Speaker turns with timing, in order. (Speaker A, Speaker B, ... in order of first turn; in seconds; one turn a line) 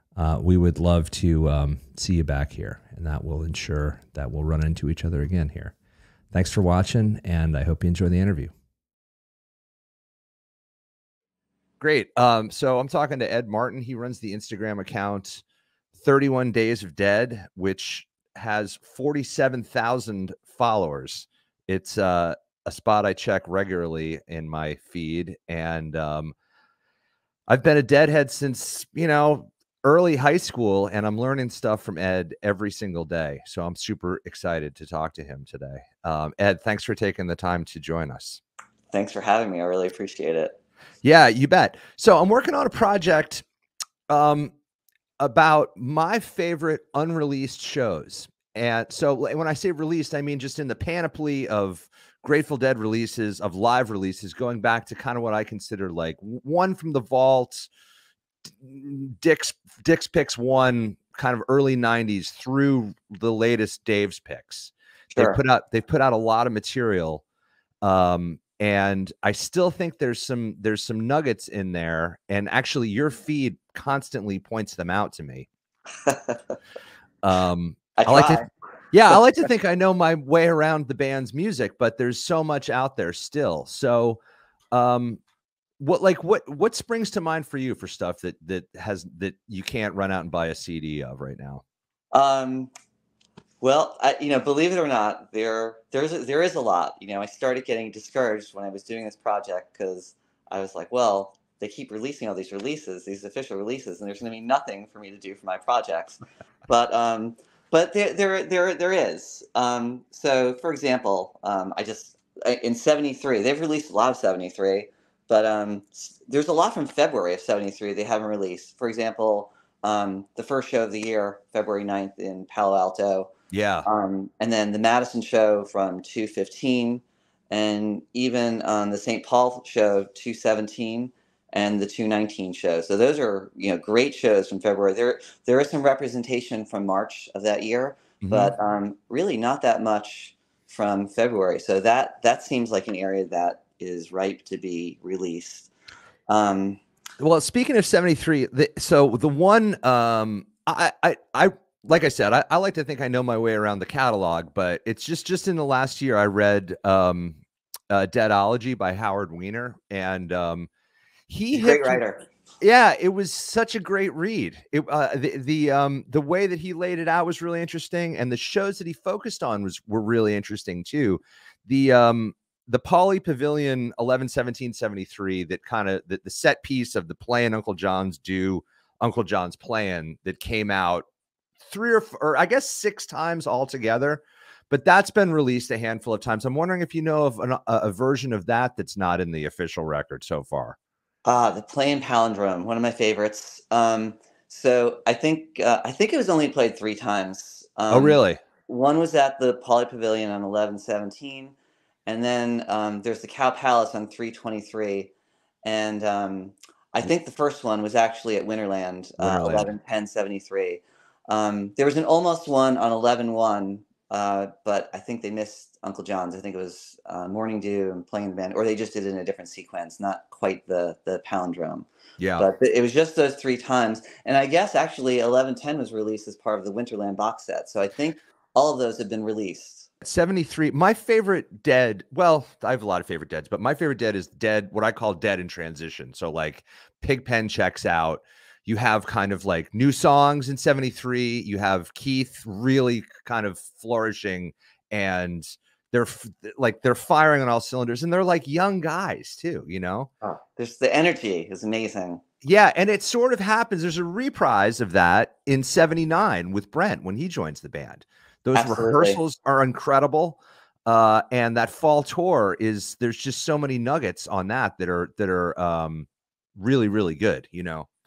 Speaker A: 0.2-5.7
Speaker A: 6.3-8.5
Speaker A: 11.8-15.4
Speaker A: 16.0-26.3
Speaker A: 27.5-38.4
Speaker B: 38.9-40.6
Speaker A: 41.0-43.4
Speaker A: 44.1-44.5
Speaker A: 45.2-57.7
Speaker A: 58.6-67.2
Speaker B: 65.1-65.4
Speaker A: 67.8-75.5
Speaker B: 76.0-76.5
Speaker A: 77.2-84.2
Speaker B: 78.0-78.5
Speaker A: 84.7-85.2
Speaker A: 85.8-91.6
Speaker B: 92.1-92.7
Speaker B: 93.6-123.3
Speaker A: 123.5-123.9
Speaker B: 123.8-145.7
Speaker A: 138.2-138.5
Speaker B: 146.3-146.8
Speaker A: 147.2-157.4
Speaker A: 157.9-160.7
Speaker A: 161.3-162.0
Speaker B: 161.5-162.2
Speaker A: 162.6-181.0
Speaker A: 181.7-190.8
Speaker B: 191.2-201.5
Speaker A: 197.9-198.4
Speaker B: 202.1-205.1
Speaker B: 205.6-229.9
Speaker A: 209.2-209.7
Speaker A: 222.2-222.5
Speaker A: 230.0-250.1
Speaker B: 250.2-252.2
Speaker A: 252.4-267.9
Speaker B: 258.5-259.2